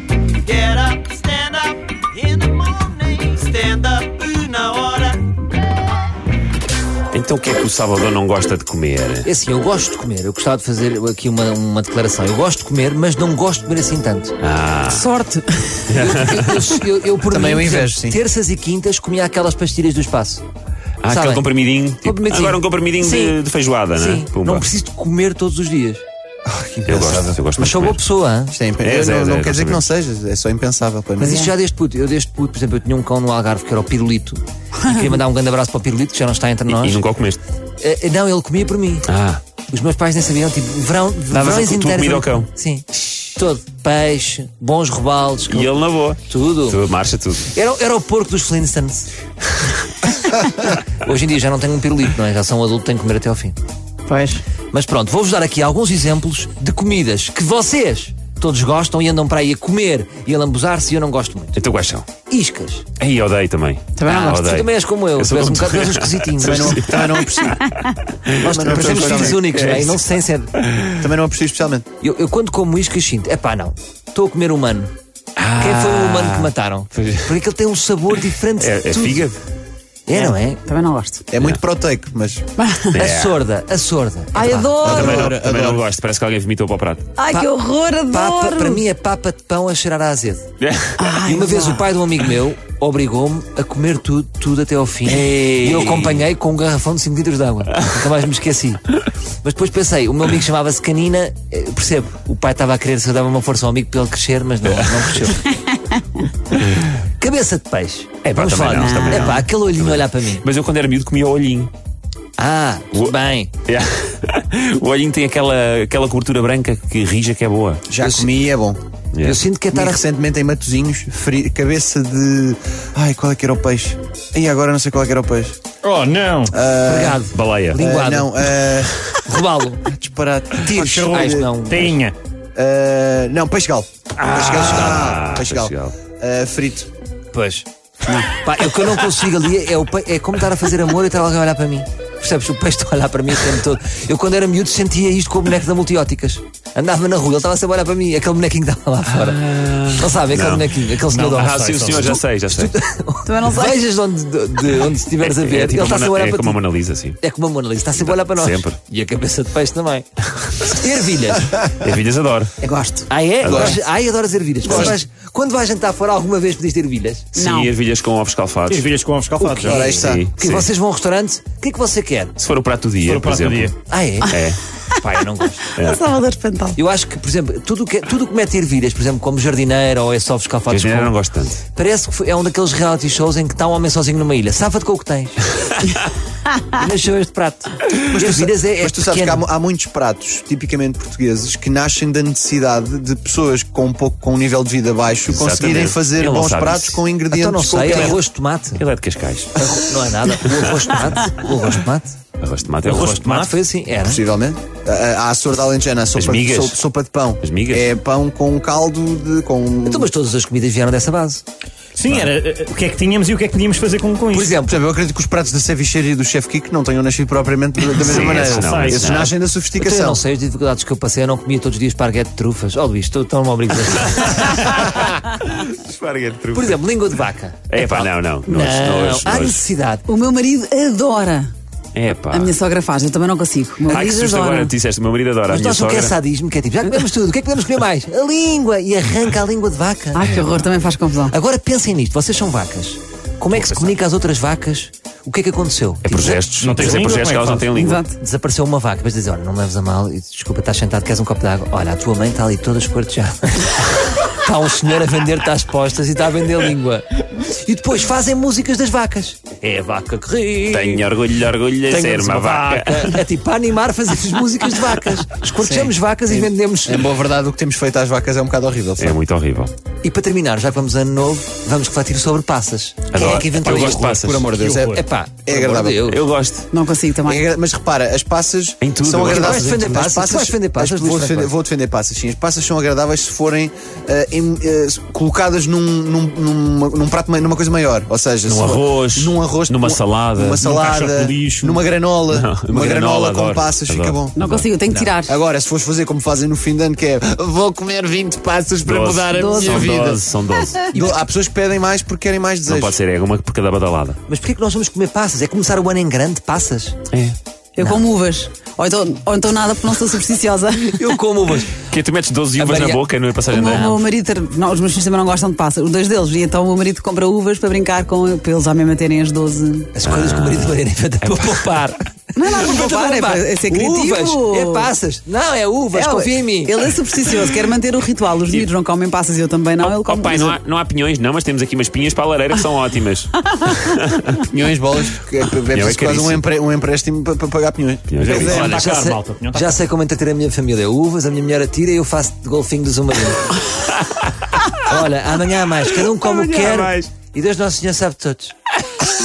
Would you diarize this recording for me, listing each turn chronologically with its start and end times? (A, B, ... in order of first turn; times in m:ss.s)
0:00.5-0:05.3 A
0:07.1-0:09.3 B
0:09.2-0:14.4 C
0:14.4-0:15.1 B
0:14.9-0:15.9 D
0:15.9-0:16.7 B
0:16.0-0:20.4 C
0:17.2-0:18.2 E
0:21.0-0:24.7 B
0:21.1-0:21.4 C
0:22.0-0:23.4 C
0:23.9-0:26.0 C
0:26.5-0:27.4 E
0:26.9-0:28.0 B
0:27.6-0:28.6 C
0:28.5-0:31.4 E
0:28.8-0:29.9 B
0:31.2-0:37.0 C
0:36.7-0:37.4 B
0:37.8-0:39.1 C
0:39.1-0:39.4 B
0:39.7-0:46.8 C
0:41.3-0:42.5 B
0:45.5-0:47.5 B
0:47.5-0:49.1 C
0:50.5-0:53.6 C
0:54.1-0:54.4 D
0:54.7-1:01.6 C
1:01.6-1:02.1 B
1:02.3-1:02.9 C
1:03.0-1:10.0 B
1:04.0-1:04.5 D
1:04.1-1:06.8 C
1:06.4-1:07.6 E
1:08.4-1:09.4 E
1:08.4-1:10.5 C
1:10.6-1:11.0 B
1:11.0-1:11.9 E
1:12.0-1:14.9 C
1:15.4-1:17.4 B
1:15.6-1:19.3 C
1:18.1-1:19.4 B
1:20.1-1:20.6 C
1:20.2-1:21.2 D
1:21.3-1:22.4 E
1:21.4-1:21.6 B
1:22.6-1:23.0 D
1:22.9-1:23.4 B
1:23.0-1:24.7 C
1:24.3-1:25.3 D
1:24.8-1:25.8 E
1:24.8-1:27.1 B
1:27.2-1:28.8 D
1:28.1-1:30.5 C
1:30.6-1:31.0 B
1:31.0-1:31.8 D
1:31.2-1:38.8 C
1:35.1-1:36.2 B
1:39.4-1:45.4 C
1:44.6-1:45.4 B
1:46.6-1:46.8 B
1:47.2-1:50.4 C
1:48.2-1:51.7 B
1:48.8-1:49.4 D
1:52.4-1:53.5 C
1:52.9-1:57.8 B
1:57.9-1:58.8 E
1:58.0-1:58.3 C
1:59.1-1:59.4 B
1:59.2-2:00.0 C
1:59.7-2:05.6 E
2:05.8-2:06.6 F
2:06.5-2:07.2 E
2:06.8-2:08.5 C
2:07.3-2:07.8 B
2:07.8-2:09.0 E
2:09.2-2:09.9 C
2:09.9-2:11.4 E
2:10.6-2:12.0 C
2:10.8-2:12.2 F
2:12.6-2:16.9 E
2:14.2-2:16.0 B
2:14.3-2:14.6 F
2:17.3-2:36.6 C
2:29.1-2:32.7 B
2:31.0-2:32.2 F
2:33.3-2:33.8 D
2:35.2-2:37.2 B
2:37.2-2:41.5 C
2:38.0-2:38.8 B
2:41.7-2:42.6 B
2:42.6-2:43.1 D
2:43.1-2:47.3 C
2:43.4-2:43.8 B
2:43.4-2:43.8 E
2:44.6-2:45.0 E
2:47.4-2:47.7 D
2:47.4-2:48.9 B
2:48.7-2:49.9 F
2:49.4-2:52.4 C
2:49.6-2:50.3 E
2:50.0-2:50.7 B
2:52.4-2:53.7 B
2:53.0-2:53.8 F
2:53.9-2:54.4 C
2:54.2-2:54.6 B
2:54.9-2:55.8 C
2:55.8-2:56.8 D
2:55.8-2:56.1 B
2:56.8-3:01.1 C
3:00.7-3:01.6 B
3:01.7-3:05.5 C
3:06.7-3:09.4 C
3:08.0-3:18.2 E
3:15.3-3:17.0 B
3:17.3-3:18.8 C
3:17.9-3:18.2 B
3:18.8-3:19.5 B
3:19.6-3:22.2 C
3:22.4-3:23.1 B
3:22.8-3:23.5 F
3:22.8-3:24.2 C
3:24.0-3:30.1 E
3:26.2-3:26.8 B
3:27.4-3:27.9 B
3:29.9-3:31.4 C
3:32.0-3:34.6 F
3:34.3-3:34.8 C
3:34.7-3:40.2 E
3:38.0-3:39.3 B
3:38.0-3:39.2 F
3:39.8-3:45.0 C
3:44.1-3:46.8 B
3:46.5-3:50.1 C
3:47.7-3:49.6 B
3:50.1-3:51.5 D
3:52.0-3:52.5 B
3:52.3-3:54.7 D
3:53.9-3:56.2 B
3:53.9-3:54.5 C
3:55.5-4:00.3 C
4:00.1-4:01.4 D
4:00.2-4:00.5 B
4:01.3-4:07.1 C
4:06.0-4:08.0 B
4:06.6-4:07.7 F
4:07.7-4:08.2 D
4:08.2-4:21.0 C
4:20.7-4:23.2 B
4:21.9-4:27.1 C
4:25.6-4:29.2 E
4:29.0-4:29.7 B
4:30.0-4:36.2 C
4:33.1-4:34.5 B
4:33.7-4:36.1 E
4:34.5-4:35.0 F
4:36.1-4:36.7 B
4:36.7-4:37.4 D
4:37.3-4:54.4 E
4:38.8-4:39.9 B
4:39.3-4:41.5 C
4:48.5-4:50.6 B
4:50.6-4:51.8 F
4:52.3-4:54.7 B
4:54.4-4:55.4 D
4:54.9-4:55.1 C
4:55.3-5:00.2 E
4:58.8-5:00.9 B
4:59.3-4:59.9 D
5:00.9-5:03.0 E
5:02.7-5:04.2 B
5:04.3-5:07.0 C
5:07.1-5:07.4 B
5:07.8-5:11.0 D
5:07.8-5:08.1 C
5:10.8-5:11.8 C
5:11.8-5:14.0 B
5:12.6-5:13.0 C
5:13.5-5:19.9 D
5:19.9-5:26.8 C
5:20.0-5:21.9 B
5:22.4-5:24.9 D
5:25.9-5:30.6 D
5:29.8-5:34.4 B
5:34.4-5:38.8 E
5:35.7-5:36.4 B
5:38.1-5:38.6 B
5:38.2-5:39.8 F
5:38.4-5:43.6 C
5:43.9-5:44.5 B
5:44.8-5:48.6 C
5:46.0-5:47.1 B